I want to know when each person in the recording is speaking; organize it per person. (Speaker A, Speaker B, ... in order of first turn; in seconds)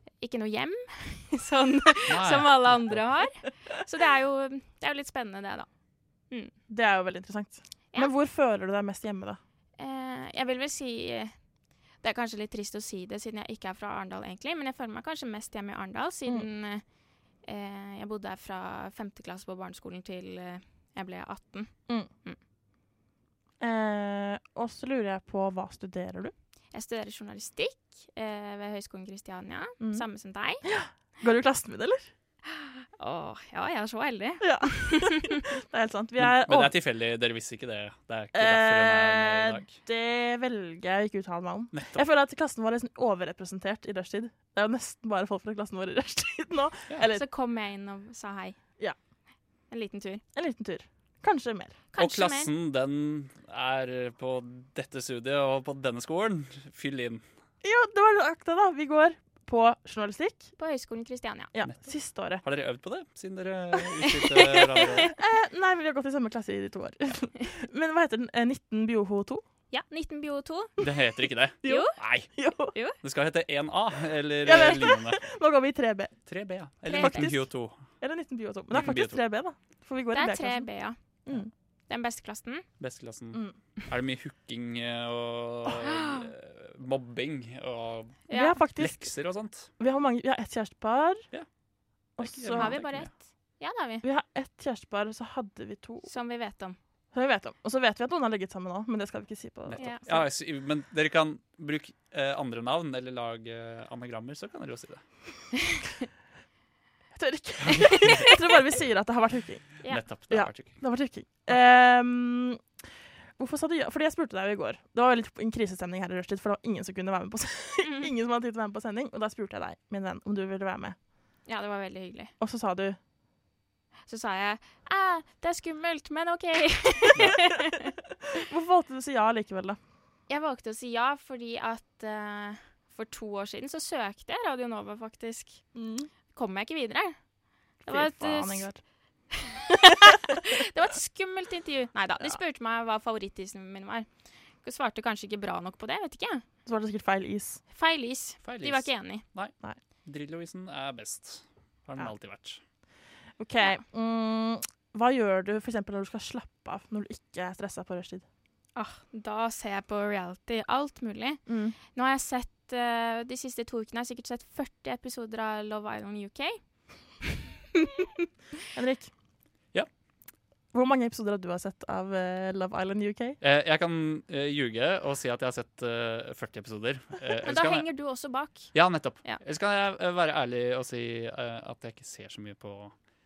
Speaker A: 0.2-5.7, 9.8-11.3, 12.0-16.8, 17.4-22.4, 26.7-30.6, 33.0-35.3, 47.1-48.5, 49.7-50.2, 51.9-52.5, 60.6-61.5, 64.8-65.1, 69.7-70.7, 71.6-71.9, 76.8-77.3, 80.1-81.0, 81.9-82.6, 85.8-86.3, 88.3-88.6, 92.5-94.0, 96.0-96.8, 99.8-100.2, 121.5-122.3, 124.1-127.9, 130.3-135.6, 136.3-137.2, 137.8-138.7, 139.3-144.1, 144.6-146.4, 147.7-149.2, 158.8-166.6, 167.3-168.2, 177.4-178.7
Speaker B: 2.1-3.0, 36.2-39.7, 41.7-42.1, 52.0-57.2, 62.4-65.1, 70.8-72.3, 73.0-75.2, 76.3-77.8, 78.7-79.2, 82.8-88.2, 88.8-89.7, 92.2-93.1, 99.7-105.0, 107.6-108.3, 109.9-110.8, 148.4-149.5, 150.0-152.6, 173.4-177.8, 178.7-182.9
Speaker C: 6.7-9.4, 23.6-26.3, 30.6-32.1, 34.4-36.7, 38.3-47.2, 50.3-51.8, 57.6-60.5, 61.5-62.4, 65.0-69.4, 71.6-72.7, 74.4-76.1, 76.9-77.4, 78.0-80.7, 88.3-89.1, 89.8-91.2, 92.2-92.8, 94.0-96.1, 97.1-100.2, 107.2-109.6, 110.3-112.6, 113.4-121.0, 122.4-123.0, 128.3-129.8, 135.7-136.1, 137.9-138.8, 146.7-147.6, 153.4-158.2, 161.5-161.8, 168.7-169.1, 170.7-173.4